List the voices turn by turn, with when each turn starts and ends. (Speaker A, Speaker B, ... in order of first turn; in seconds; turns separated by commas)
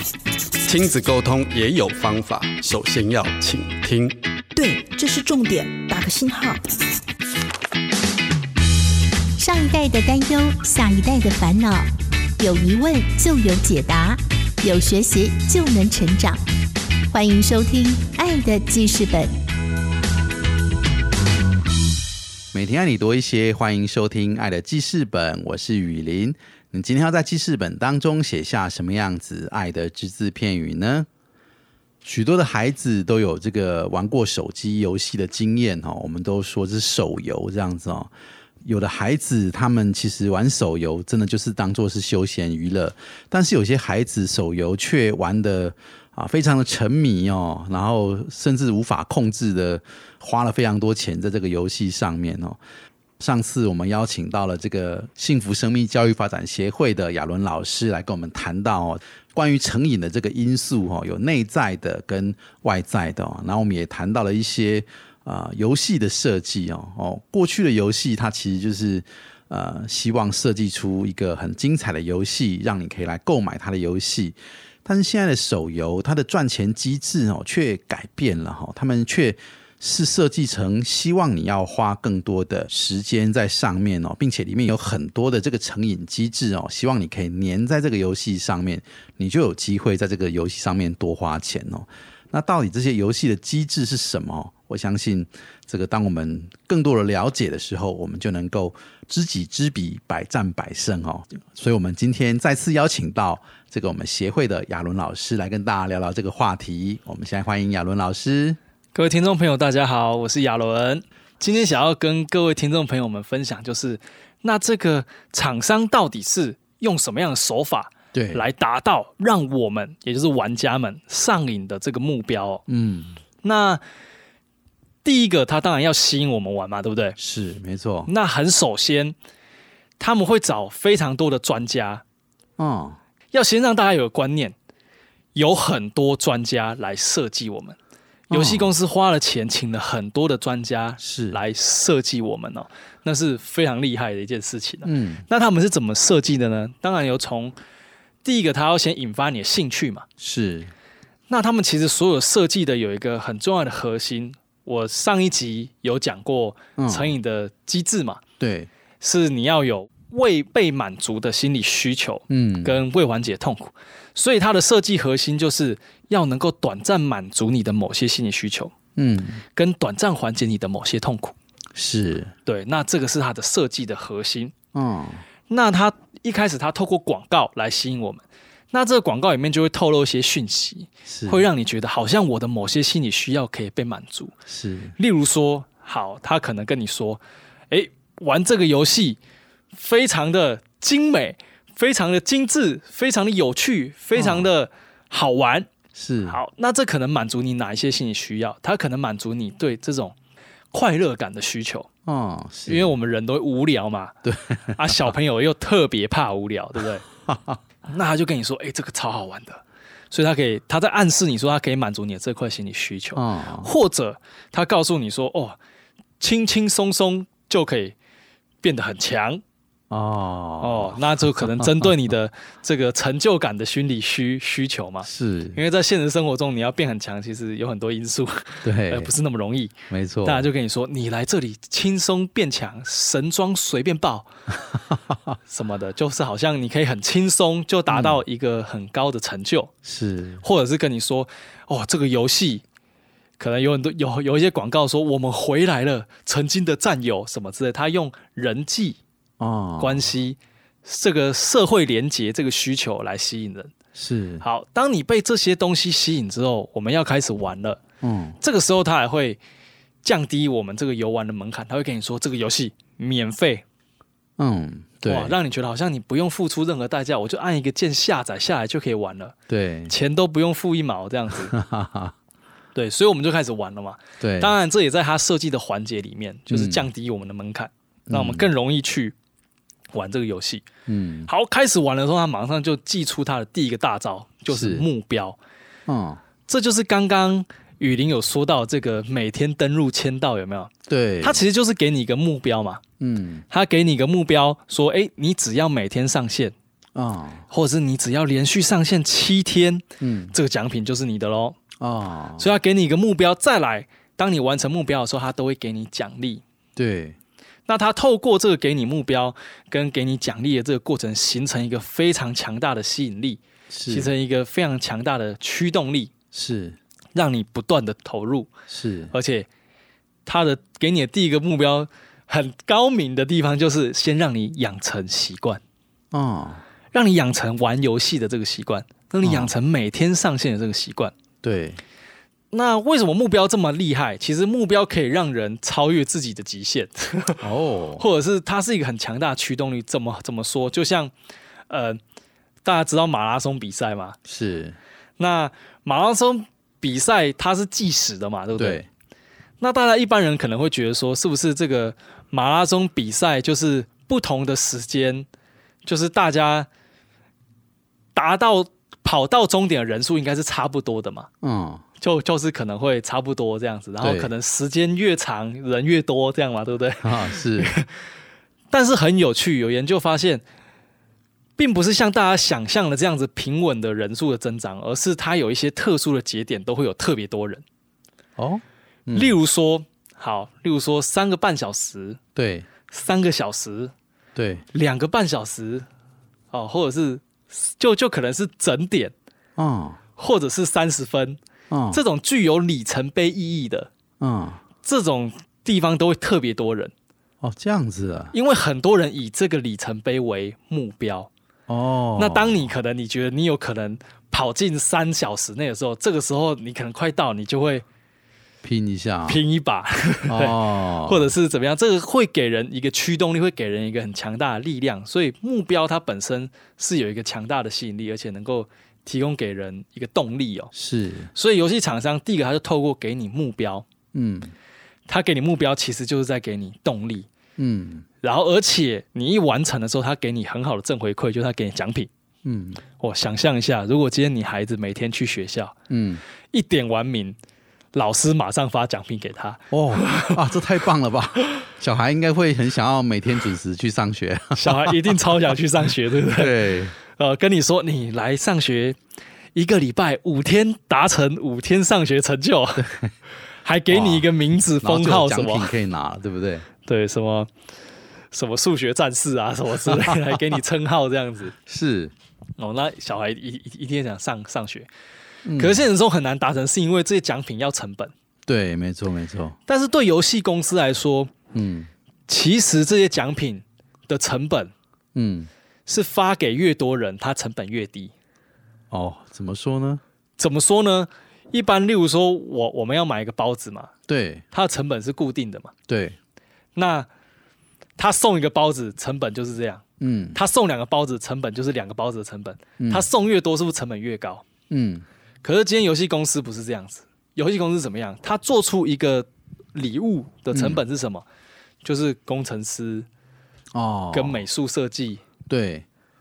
Speaker A: 0.6-4.2, Speaker B: 4.5-6.6, Speaker C: 9.4-16.4, Speaker C: 17.1-19.4, Speaker D: 22.5-31.1, Speaker D: 32.0-38.1, Speaker D: 38.6-52.6, Speaker D: 53.2-108.6, Speaker E: 108.9-122.6, Speaker D: 118.1-118.5, Speaker D: 122.7-123.2, Speaker E: 123.4-123.8, Speaker E: 125.0-127.2, Speaker D: 127.2-128.1, Speaker E: 128.1-129.1, Speaker E: 130.0-132.0, Speaker D: 132.6-133.0, Speaker E: 133.3-134.6, Speaker E: 135.3-137.8, Speaker E: 138.3-147.6, Speaker D: 138.3-138.7, Speaker D: 141.0-141.4, Speaker D: 144.8-145.2, Speaker E: 148.2-150.1, Speaker D: 150.2-150.7, Speaker E: 151.3-158.2, Speaker D: 156.8-157.1, Speaker D: 158.4-158.7, Speaker E: 159.0-168.7, Speaker D: 162.3-162.8, Speaker D: 168.9-169.4, Speaker E: 169.5-171.3, Speaker D: 171.7-172.3, Speaker E: 172.4-174.5, Speaker D: 174.7-175.2, Speaker E: 175.5-184.3, Speaker D: 181.1-181.4, Speaker D: 184.5-184.9, Speaker E: 185.0-189.2, Speaker E: 189.7-195.7, Speaker D: 194.1-194.5, Speaker D: 195.9-196.4, Speaker E: 196.3-200.1, Speaker E: 200.7-201.9, Speaker D: 202.1-202.9, Speaker E: 202.7-204.2, Speaker D: 204.2-205.0, Speaker E: 204.7-207.0, Speaker D: 207.2-207.6, Speaker E: 207.9-215.6, Speaker D: 213.1-213.7, Speaker E: 216.2-217.9, Speaker E: 218.6-219.4, Speaker D: 219.9-221.9, Speaker E: 220.6-234.3, Speaker D: 225.0-225.6, Speaker D: 228.6-229.1, Speaker D: 229.9-230.5, Speaker D: 234.7-235.3, Speaker E: 235.5-239.7, Speaker D: 237.9-238.2, Speaker D: 239.8-240.4, Speaker E: 240.4-242.6, Speaker E: 243.4-249.0, Speaker D: 249.4-250.1, Speaker E: 249.8-253.7, Speaker D: 253.9-254.4, Speaker E: 254.4-257.8, Speaker D: 258.0-258.4, Speaker E: 258.4-259.4, Speaker E: 260.0-263.6, Speaker D: 264.4-265.4, Speaker E: 265.1-269.3, Speaker D: 269.5-269.9, Speaker E: 269.9-271.5, Speaker D: 271.5-272.1, Speaker E: 272.7-279.1, Speaker D: 274.2-274.5, Speaker D: 276.5-276.9, Speaker D: 278.1-278.4, Speaker E: 279.9-280.6, Speaker D: 280.9-281.3, Speaker E: 281.3-285.4, Speaker D: 284.5-284.9, Speaker D: 285.9-286.2, Speaker E: 286.5-292.8, Speaker D: 290.9-291.4, Speaker D: 293.0-293.4, Speaker E: 293.5-296.5, Speaker D: 296.9-297.5, Speaker E: 297.5-301.6, Speaker D: 300.0-300.3, Speaker D: 301.8-302.5, Speaker E: 302.4-306.4, Speaker D: 306.8-307.2, Speaker E: 307.7-316.1, Speaker D: 313.7-314.1, Speaker D: 316.3-316.8, Speaker E: 317.1-318.5, Speaker D: 318.7-319.1, Speaker E: 319.1-319.5, Speaker E: 320.2-325.6, Speaker D: 326.1-326.6, Speaker E: 326.9-331.1, Speaker D: 329.2-329.5, Speaker D: 331.4-331.8, Speaker E: 332.5-337.4, Speaker D: 337.4-338.0, Speaker E: 338.0-341.1, Speaker E: 341.7-342.0, Speaker E: 342.6-344.2, Speaker D: 344.2-344.8, Speaker E: 345.2-348.8, Speaker D: 348.6-348.9, Speaker E: 349.6-355.3, Speaker E: 355.8-356.7, Speaker E: 358.1-361.3, Speaker D: 361.4-361.8, Speaker E: 362.0-367.9, Speaker D: 364.0-364.3, Speaker D: 367.0-367.7, Speaker E: 368.7-370.4, Speaker E: 371.6-377.6, Speaker D: 378.4-379.3, Speaker E: 379.1-382.2, Speaker D: 382.4-382.7, Speaker E: 382.9-383.9, Speaker D: 384.4-384.6, Speaker E: 384.7-385.9, Speaker E: 386.5-389.1, Speaker D: 389.6-390.0, Speaker E: 390.2-391.4, Speaker D: 391.7-392.0, Speaker E: 391.9-393.9, Speaker D: 394.2-394.6, Speaker E: 394.8-396.9, Speaker D: 397.4-398.3, Speaker E: 398.3-401.3, Speaker D: 401.7-402.7, Speaker E: 402.2-407.8, Speaker D: 408.6-409.4, Speaker E: 409.3-420.7, Speaker D: 410.3-411.3, Speaker D: 420.7-421.3, Speaker E: 421.3-423.9, Speaker D: 424.1-424.5, Speaker E: 425.1-427.3, Speaker D: 427.6-428.1, Speaker E: 428.2-432.1, Speaker D: 432.4-432.8, Speaker E: 433.0-435.8, Speaker D: 435.9-436.2, Speaker E: 436.5-437.4, Speaker E: 437.9-440.4, Speaker D: 439.7-445.2, Speaker E: 444.5-449.0, Speaker D: 446.2-446.9, Speaker E: 449.5-452.9, Speaker D: 452.8-453.1, Speaker E: 453.6-455.7, Speaker D: 453.9-456.7, Speaker E: 456.8-457.5, Speaker E: 458.3-461.5, Speaker D: 459.9-460.5, Speaker D: 461.6-462.1, Speaker E: 462.6-464.9, Speaker D: 465.4-465.8, Speaker E: 465.6-468.1, Speaker D: 468.4-469.6, Speaker E: 469.7-471.3, Speaker D: 471.5-471.9, Speaker E: 472.3-474.7, Speaker D: 475.1-475.5, Speaker E: 475.9-478.1, Speaker D: 478.9-480.0, Speaker E: 480.4-483.9, Speaker D: 484.1-484.4, Speaker E: 484.5-485.7, Speaker D: 485.9-486.2, Speaker E: 486.7-487.1, Speaker E: 488.0-494.4, Speaker D: 490.0-490.4, Speaker D: 492.8-493.1, Speaker D: 494.7-495.0, Speaker E: 495.4-501.2, Speaker D: 500.5-500.8, Speaker E: 501.8-503.1, Speaker D: 503.7-504.4, Speaker E: 504.1-505.2, Speaker D: 505.5-505.9